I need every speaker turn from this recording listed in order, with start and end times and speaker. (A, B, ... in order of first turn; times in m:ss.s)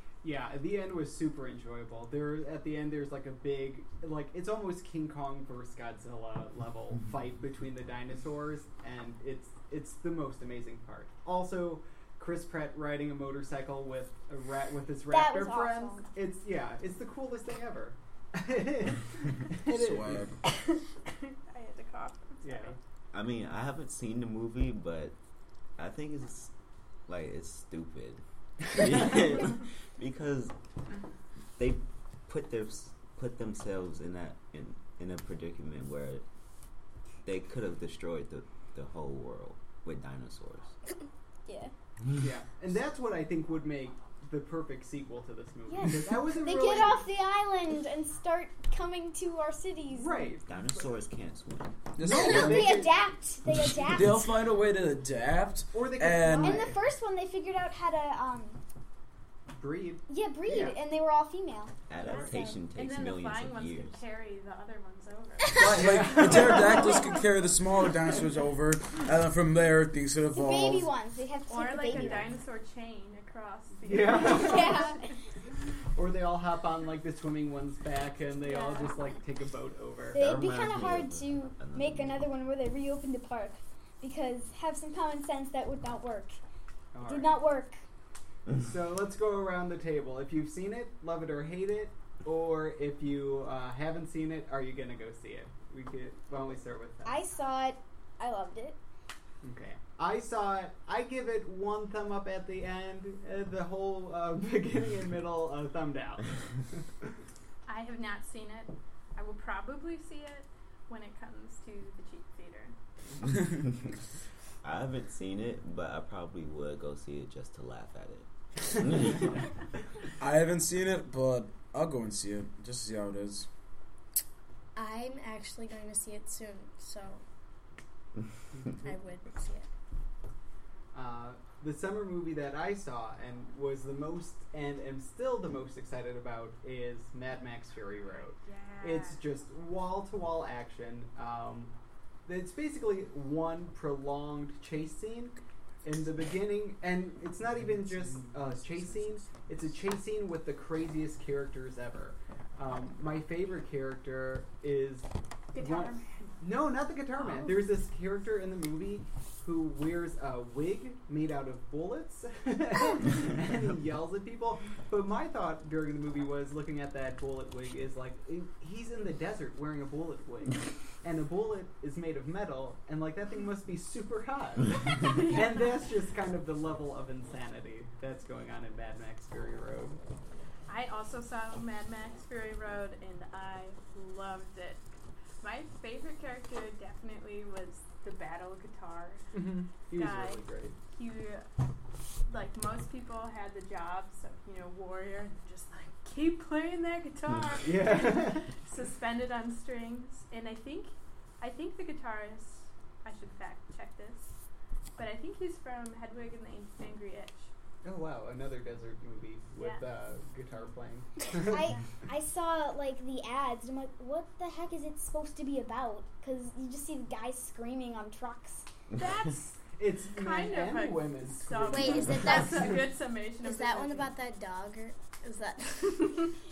0:00.2-0:20.3 A
0:15.1-0:16.0 B
0:19.6-0:20.4 C
0:20.6-0:22.8 D
0:22.4-0:22.8 A
0:23.1-0:25.2 E
0:25.8-0:26.5 E
0:27.1-0:30.5 E
0:31.6-0:36.2 E
0:37.2-0:40.8 E
0:41.4-0:41.7 B
0:42.2-0:47.0 A
0:45.7-0:50.2 B
0:49.9-0:50.9 A
0:50.4-0:51.9 E
0:52.0-0:52.8 C
0:52.0-0:53.0 A
0:52.0-0:54.3 B
0:53.8-0:56.7 C
0:55.7-0:56.8 A
0:56.4-0:58.6 B
0:59.5-1:00.8 A
1:00.1-1:01.7 B
1:01.9-1:04.0 E
1:02.0-1:02.4 A
1:02.1-1:07.2 D
1:02.3-1:02.6 B
1:05.5-1:07.1 A
1:05.6-1:10.9 C
1:10.3-1:12.3 B
1:11.5-1:15.1 D
1:11.9-1:12.2 A
1:13.8-1:14.9 A
1:14.1-1:15.1 B
1:16.0-1:20.2 A
1:18.4-1:19.2 D
1:20.1-1:22.2 E
1:20.1-1:26.4 B
1:26.9-1:27.4 A
1:27.0-1:27.8 B
1:28.5-1:37.2 A
1:37.0-1:38.8 B
1:39.4-1:46.9 A
1:47.6-1:52.7 D
1:54.6-1:59.3 E
2:00.2-2:03.5 C
2:04.8-2:07.2 F
2:08.8-2:09.7 F
2:10.9-2:21.7 A
2:18.4-2:19.2 D
2:22.2-3:00.0 A
2:35.5-2:36.3 D
2:54.9-2:55.6 D
3:00.7-3:04.9 D
3:05.4-3:09.3 D
3:09.3-3:10.8 A
3:09.9-3:11.4 D
3:12.3-3:24.3 D
3:17.6-3:18.5 A
3:25.0-3:27.5 D
3:27.8-3:31.7 A
3:31.3-3:38.7 B
3:39.0-3:44.1 D
3:39.7-3:42.8 A
3:41.7-3:42.8 F
3:43.4-3:46.3 F